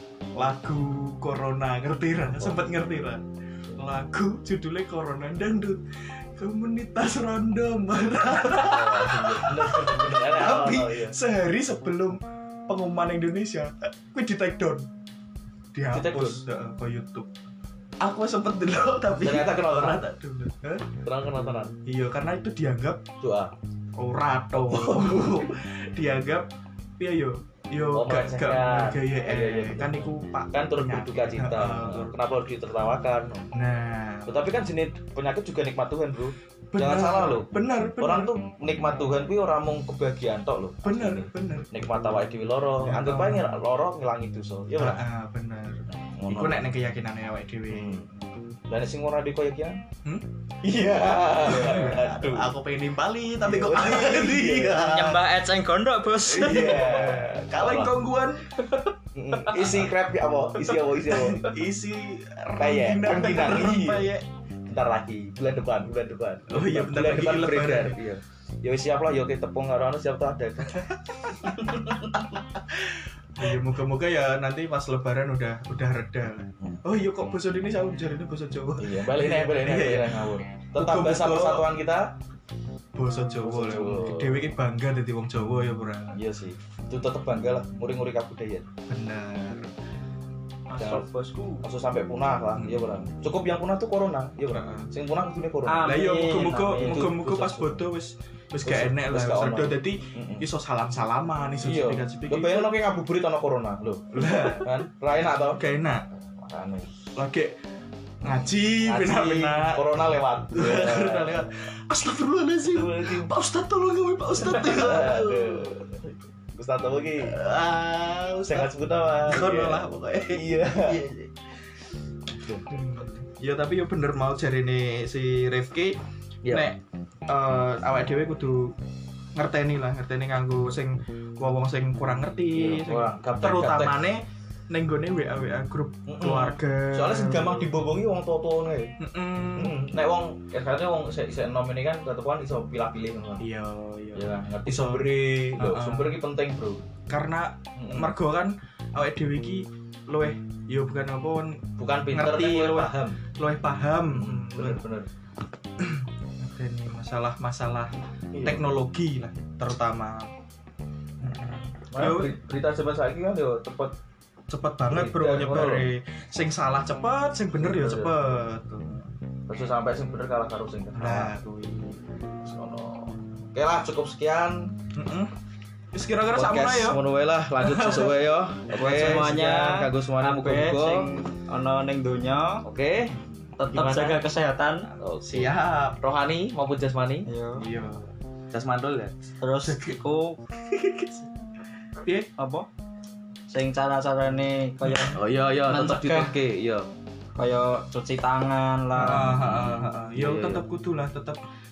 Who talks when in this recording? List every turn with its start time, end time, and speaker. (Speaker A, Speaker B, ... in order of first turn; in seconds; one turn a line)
Speaker A: 0.3-5.8
Speaker B: 2.4-2.6
Speaker A: 6.3-14.9
Speaker B: 8.4-11.2
Speaker A: 15.7-17.3
Speaker B: 15.9-16.4
Speaker A: 18.0-20.9
Speaker B: 19.2-20.0
Speaker B: 21.0-21.8
Speaker A: 21.9-23.0
Speaker B: 23.2-23.5
Speaker A: 24.0-32.1
Speaker B: 24.5-25.5
Speaker B: 27.9-33.5
Speaker A: 33.5-34.4
Speaker B: 34.3-45.0
Speaker A: 36.7-38.4
Speaker A: 40.8-41.7
Speaker A: 42.8-43.5
Speaker A: 44.8-48.0
Speaker B: 45.9-46.7
Speaker B: 47.7-48.1
Speaker B: 48.7-49.8
Speaker B: 50.6-52.5
Speaker A: 51.4-55.2
Speaker B: 53.4-55.0
Speaker C: 54.6-56.9
Speaker A: 56.3-58.5
Speaker B: 56.3-58.0
Speaker B: 59.1-61.5
Speaker A: 59.5-59.8
Speaker A: 61.1-64.2
Speaker B: 62.6-64.1
Speaker B: 64.7-72.0
Speaker A: 66.5-68.0
Speaker A: 71.5-81.7
Speaker B: 78.8-82.1
Speaker A: 82.9-86.2
Speaker B: 83.4-84.5
Speaker B: 86.1-88.7
Speaker A: 88.9-89.7
Speaker A: 90.7-91.6
Speaker B: 90.8-91.1
Speaker B: 91.6-96.0
Speaker A: 92.6-93.0
Speaker A: 94.5-94.9
Speaker C: 95.7-97.8
Speaker A: 95.8-102.7
Speaker B: 96.8-97.1
Speaker B: 98.6-100.5
Speaker B: 101.6-106.9
Speaker A: 104.1-104.7
Speaker A: 105.5-106.0
Speaker A: 107.2-107.6
Speaker A: 108.2-109.9
Speaker B: 108.8-111.4
Speaker A: 110.5-115.8
Speaker B: 112.7-113.3
Speaker B: 114.4-117.4
Speaker A: 117.2-118.7
Speaker B: 118.5-121.1
Speaker A: 119.2-121.3
Speaker B: 122.3-122.7
Speaker A: 122.7-128.8
Speaker B: 126.4-126.7
Speaker A: 129.3-137.7
Speaker B: 132.5-134.0
Speaker B: 136.1-138.9
Speaker A: 139.0-139.8
Speaker B: 139.5-143.4
Speaker A: 143.4-146.2
Speaker B: 144.1-146.8
Speaker A: 147.1-154.8
Speaker B: 147.8-148.1
Speaker B: 151.8-153.2
Speaker B: 154.1-155.1
Speaker A: 155.8-160.3
Speaker B: 158.3-158.7
Speaker A: 161.2-162.4
Speaker B: 161.9-163.9
Speaker A: 164.5-169.1
Speaker B: 164.9-165.9
Speaker B: 167.6-168.3
Speaker B: 169.5-171.3
Speaker A: 170.9-172.1
Speaker B: 172.4-174.7
Speaker A: 174.9-175.3
Speaker A: 175.9-177.0
Speaker B: 176.3-181.2
Speaker A: 177.6-178.3
Speaker C: 178.7-182.6
Speaker B: 182.6-183.2
Speaker C: 183.6-184.9
Speaker B: 183.7-184.2
Speaker A: 183.8-184.1
Speaker B: 185.0-187.3
Speaker A: 185.2-186.0
Speaker C: 187.2-187.6
Speaker A: 187.6-188.1
Speaker B: 188.5-189.1
Speaker C: 189.4-190.4
Speaker A: 189.6-190.0
Speaker A: 192.0-192.3
Speaker C: 192.4-192.7
Speaker C: 193.5-196.3
Speaker A: 194.8-195.2
Speaker B: 195.1-196.9
Speaker C: 197.4-199.4
Speaker A: 198.9-201.4
Speaker B: 199.0-200.6